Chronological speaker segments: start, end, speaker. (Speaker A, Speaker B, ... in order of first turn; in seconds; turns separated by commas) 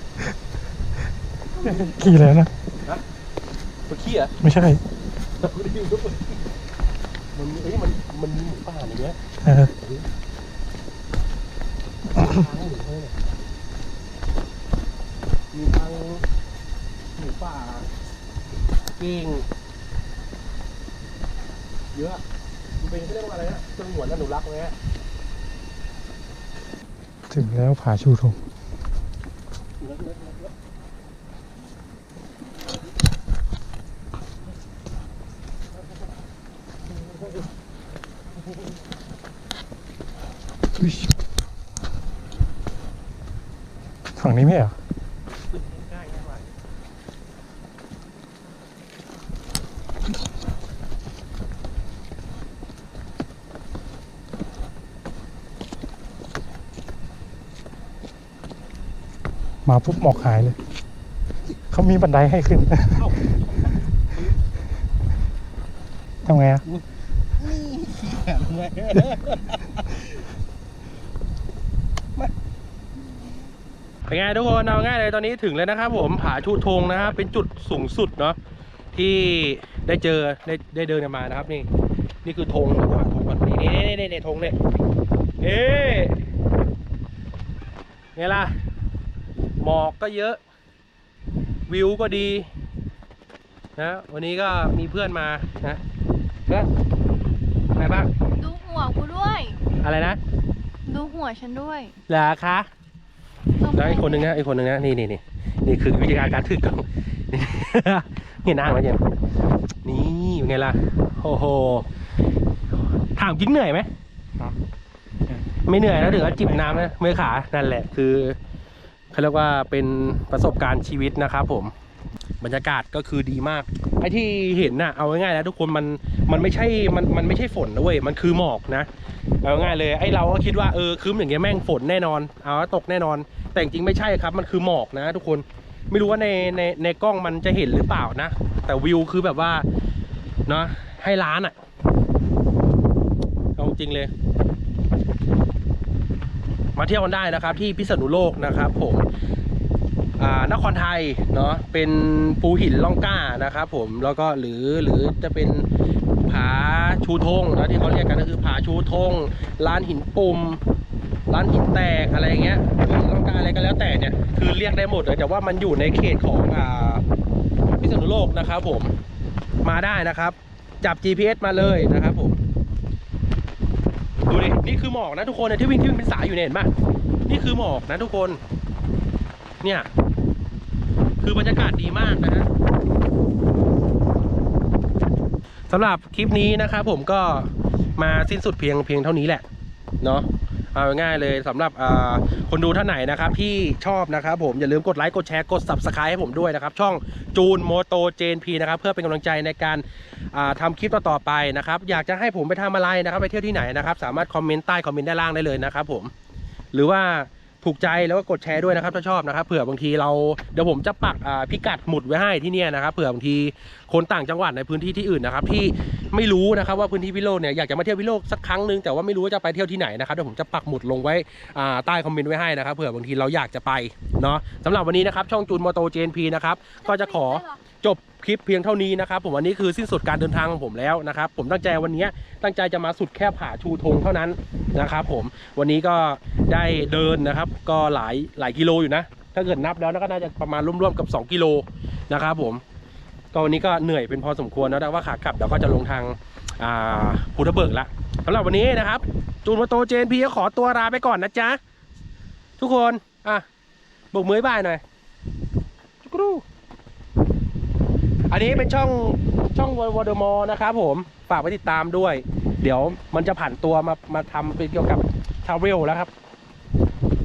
Speaker A: 1.5-2.1, Speaker B: 1.6-2.5, Speaker C: 3.9-4.4, Speaker B: 4.4-4.8, Speaker C: 5.4-6.4, Speaker C: 7.3-9.2, Speaker B: 9.4-9.7, Speaker C: 12.1-13.2, Speaker C: 15.5-16.2, Speaker C: 17.2-17.9, Speaker C: 19.0-19.5, Speaker C: 21.9-22.2, Speaker C: 22.8-24.8, Speaker B: 27.3-28.4, Speaker C: 29.8-30.5, Speaker B: 40.8-41.1, Speaker B: 44.2-44.8, Speaker C: 45.5-46.5, Speaker B: 59.7-60.6, Speaker B: 61.7-63.0, Speaker C: 62.9-64.4, Speaker B: 66.2-66.6, Speaker C: 67.4-70.1, Speaker C: 74.1-78.4, Speaker C: 78.9-81.7, Speaker C: 82.2-84.6, Speaker C: 85.4-86.2, Speaker C: 88.2-88.5, Speaker C: 89.6-90.4, Speaker C: 91.7-92.5, Speaker C: 93.8-95.8, Speaker C: 97.8-98.1, Speaker A: 98.4-99.6, Speaker C: 99.8-100.2, Speaker A: 100.9-102.0, Speaker C: 102.1-102.7, Speaker A: 103.6-104.3, Speaker C: 103.7-109.0, Speaker C: 109.8-111.9, Speaker C: 113.2-113.9, Speaker C: 115.7-118.4, Speaker B: 116.1-116.8, Speaker C: 119.1-121.7, Speaker C: 122.4-128.9, Speaker C: 129.4-139.7, Speaker C: 140.5-141.6, Speaker C: 143.6-144.1, Speaker C: 146.8-149.1, Speaker C: 150.2-155.7, Speaker C: 156.3-160.6, Speaker C: 161.3-167.0, Speaker C: 167.7-168.9, Speaker C: 169.6-172.4, Speaker C: 174.3-176.7, Speaker C: 177.3-178.4, Speaker C: 179.6-179.9, Speaker C: 181.2-182.5, Speaker C: 185.7-189.4, Speaker C: 190.0-206.1, Speaker C: 206.7-242.6, Speaker A: 226.8-227.6, Speaker C: 243.3-251.6, Speaker C: 252.6-253.4, Speaker C: 254.1-254.8, Speaker C: 256.0-256.4, Speaker C: 258.3-266.1